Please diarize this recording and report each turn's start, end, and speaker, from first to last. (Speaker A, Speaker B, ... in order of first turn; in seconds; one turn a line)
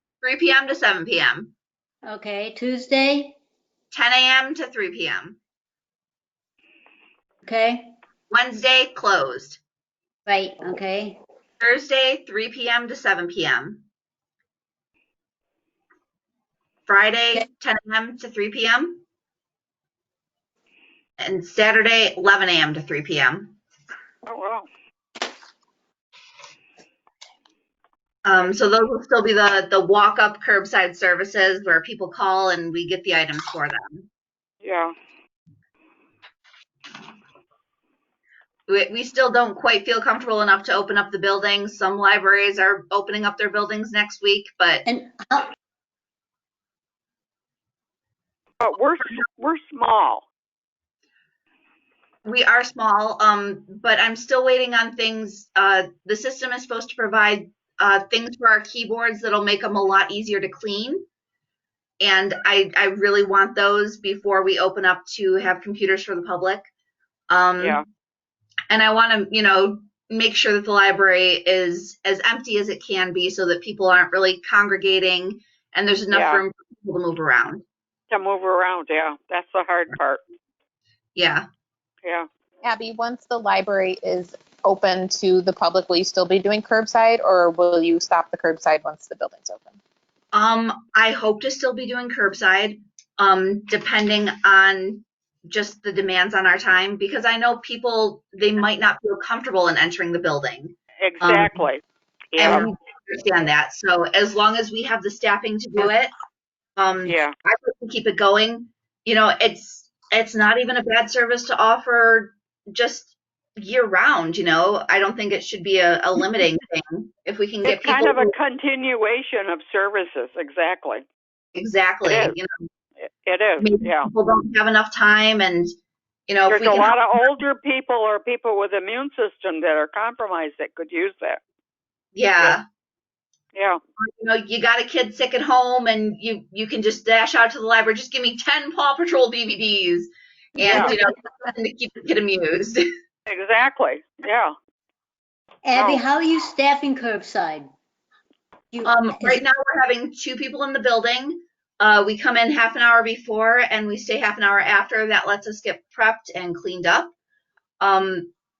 Speaker A: 0.2-1.5
Speaker B: 2.0-3.4
Speaker A: 3.9-5.4
Speaker B: 7.4-7.9
Speaker A: 8.3-9.6
Speaker B: 10.2-11.2
Speaker A: 11.6-13.8
Speaker A: 16.9-19.0
Speaker A: 21.2-23.5
Speaker C: 24.3-24.7
Speaker A: 28.2-34.1
Speaker C: 34.6-34.9
Speaker A: 38.7-44.8
Speaker B: 44.8-45.5
Speaker C: 48.6-50.2
Speaker A: 52.2-61.0
Speaker A: 62.0-66.7
Speaker A: 67.3-67.8
Speaker C: 67.6-67.8
Speaker A: 68.7-77.6
Speaker C: 76.1-76.4
Speaker C: 78.1-80.2
Speaker A: 81.1-81.4
Speaker D: 82.6-89.8
Speaker A: 90.3-101.6
Speaker C: 101.0-102.7
Speaker A: 102.4-106.1
Speaker A: 106.8-118.3
Speaker C: 107.0-107.3
Speaker C: 117.6-121.0
Speaker A: 121.5-122.7
Speaker C: 122.0-122.3
Speaker C: 123.0-124.1
Speaker A: 123.6-125.7
Speaker A: 126.3-127.0
Speaker C: 126.5-131.4
Speaker A: 132.1-132.6
Speaker C: 133.5-133.8
Speaker A: 134.0-142.8
Speaker B: 140.6-141.0
Speaker C: 140.6-140.9
Speaker C: 143.3-144.5
Speaker B: 145.6-147.7
Speaker C: 145.7-146.0
Speaker B: 148.7-149.4
Speaker A: 148.8-157.1
Speaker A: 157.8-158.3